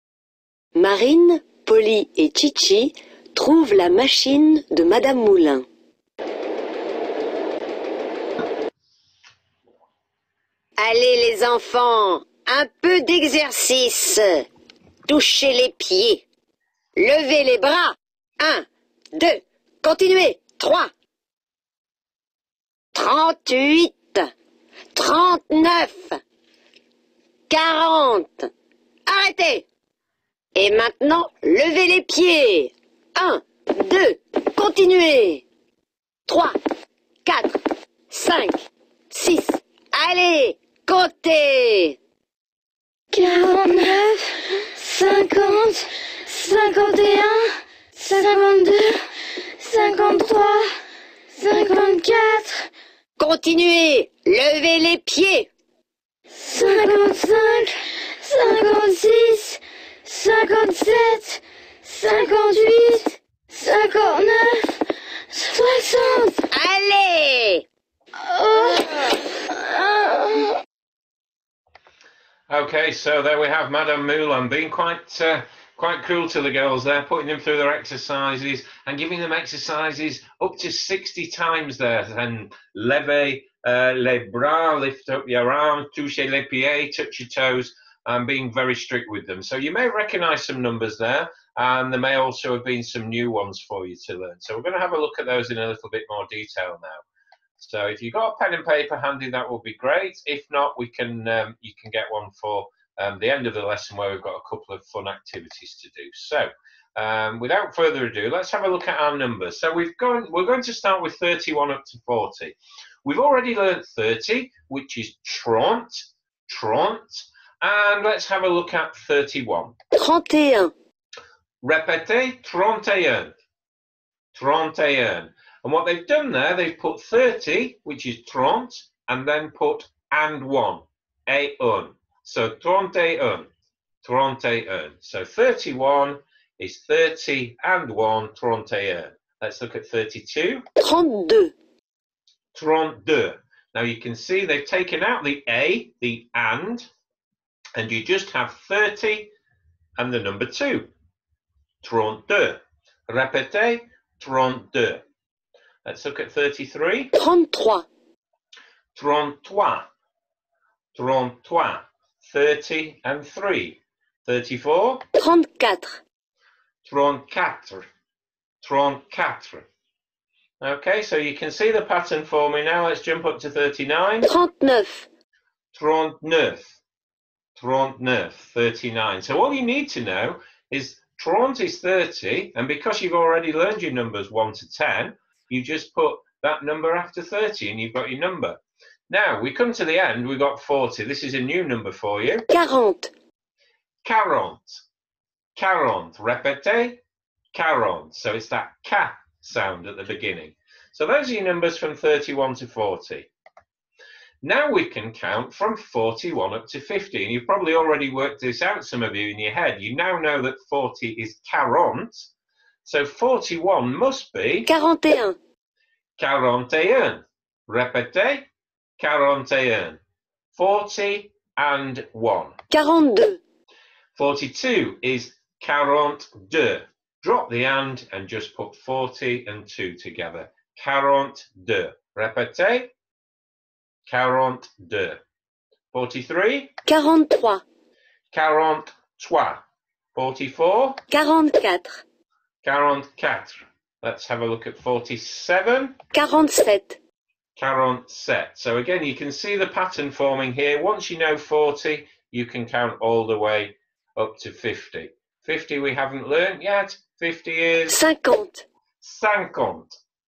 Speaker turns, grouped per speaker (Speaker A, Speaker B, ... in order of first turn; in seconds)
Speaker A: 0.8-5.7, 10.8-14.5, 15.1-16.2, 17.0-20.9, 22.9-24.3, 24.9-26.2, 27.5-28.5, 29.1-29.6, 30.6-35.4, 36.3-36.5, 37.2-37.6, 38.1-38.6, 39.1-42.0, 53.2-55.5, 66.5-67.6, 120.0-120.7, 140.8-141.5, 157.2-157.9, 165.2-165.9, 174.2-175.1, 192.5-193.1, 214.6-215.4, 222.7-223.4, 236.9-237.6, 241.1-241.9, 246.1-247.0, 257.9-258.6
Speaker B: 43.1-49.0, 49.6-50.8, 51.3-52.7, 56.4-66.5, 68.2-70.6
Speaker C: 72.5-97.0, 97.6-119.7, 121.6-123.3, 124.3-133.5, 134.0-140.6, 142.5-146.9, 147.8-149.3, 150.0-150.9, 151.8-155.0, 155.8-157.1, 158.9-159.9, 160.9-165.0, 166.8-167.9, 168.6-169.7, 170.6-174.3, 175.7-176.8, 177.6-192.4, 194.0-194.8, 195.6-197.0, 197.5-203.3, 204.4-212.3, 212.8-214.7, 216.2-220.0, 220.5-222.6, 224.1-232.9, 234.1-235.2, 235.9-236.7, 238.3-239.6, 240.1-241.0, 242.6-246.0, 247.6-258.0, 259.0-259.9